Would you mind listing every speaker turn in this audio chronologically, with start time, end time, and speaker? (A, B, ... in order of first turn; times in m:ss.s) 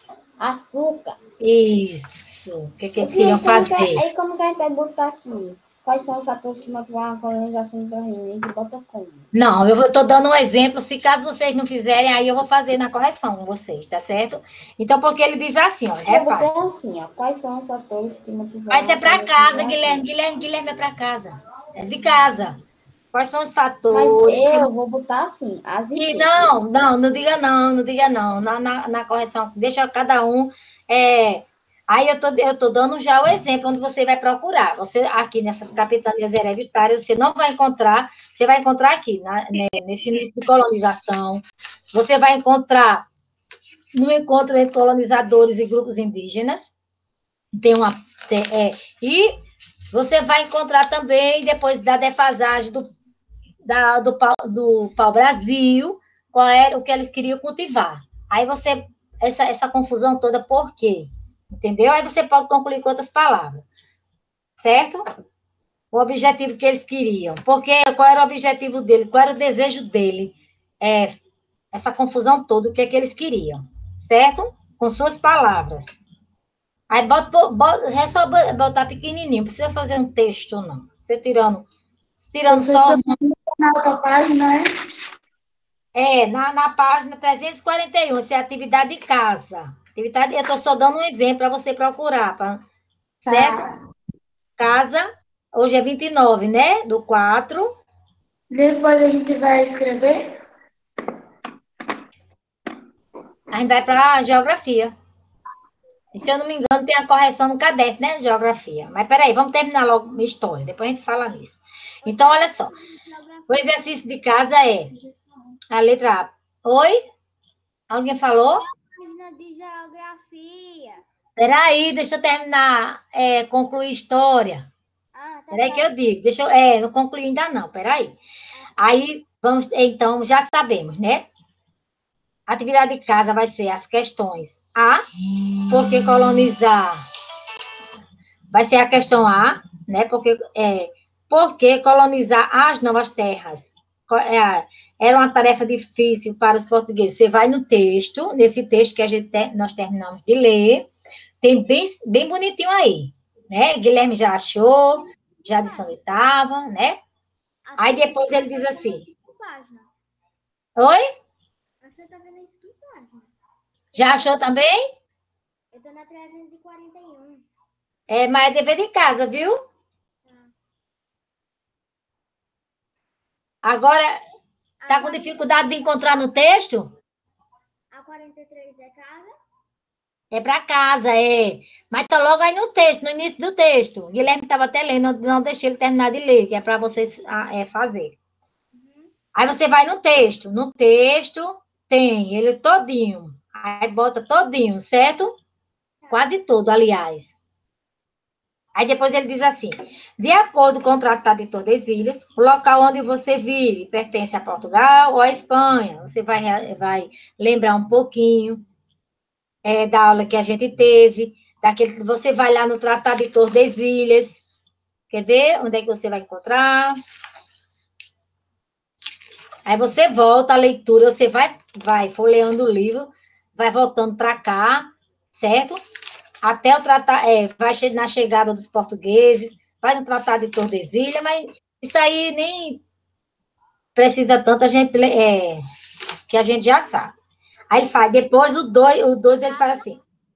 0:00.4-0:01.1 A
0:01.4-0:04.0 B
0:03.0-0:09.2 A
0:09.3-0:16.5 B
0:16.0-0:20.0 A
0:18.7-0:22.6 B
0:23.1-0:24.7 B
0:23.9-0:26.6 A
0:26.0-0:41.4 B
0:41.9-0:43.0 B
0:43.9-0:46.7 B
0:47.5-0:49.3 B
0:49.9-0:52.8 B
0:53.6-1:03.6 B
1:04.6-1:05.0 B
1:05.9-1:11.2 B
1:11.7-1:16.0 B
1:16.9-1:21.6 B
1:22.2-1:23.1 B
1:22.5-1:24.7 C
1:25.9-1:32.6 B
1:33.2-1:33.6 B
1:33.2-1:33.6 C
1:34.6-1:37.7 B
1:38.5-1:40.3 C
1:43.5-1:44.9 B
1:46.1-1:52.7 B
1:52.0-1:53.8 D
1:53.5-1:54.9 B
1:55.7-1:57.0 B
1:57.9-1:58.6 B
1:58.8-2:01.0 D
2:01.4-2:04.7 B
2:05.1-2:05.9 D
2:05.5-2:08.2 B
2:08.8-2:11.3 B
2:12.5-2:15.0 B
2:15.7-2:17.0 B
2:18.5-2:30.9 B
2:31.4-2:37.0 B
2:35.4-2:35.9 D
2:37.7-2:39.9 D
2:37.8-2:39.0 B
2:40.8-2:41.0 B
2:41.8-2:43.3 D
2:43.9-2:44.8 B
2:44.0-2:44.4 D
2:45.7-2:47.5 D
2:48.1-2:49.6 B
2:50.2-2:50.5 D
2:53.6-2:54.2 B
2:54.8-2:55.5 D
2:54.9-2:56.9 B
2:57.9-2:59.3 D
3:00.3-3:08.2 B
3:08.7-3:09.1 D
3:09.4-3:15.3 B
3:16.1-3:17.4 B
3:18.8-3:28.6 B
3:29.6-3:34.4 B
3:35.1-3:37.0 B
3:39.6-3:45.8 B
3:46.4-3:52.8 B
3:54.0-3:55.6 B
3:56.3-3:57.1 B
3:57.7-4:00.0 B
3:59.4-4:00.0 D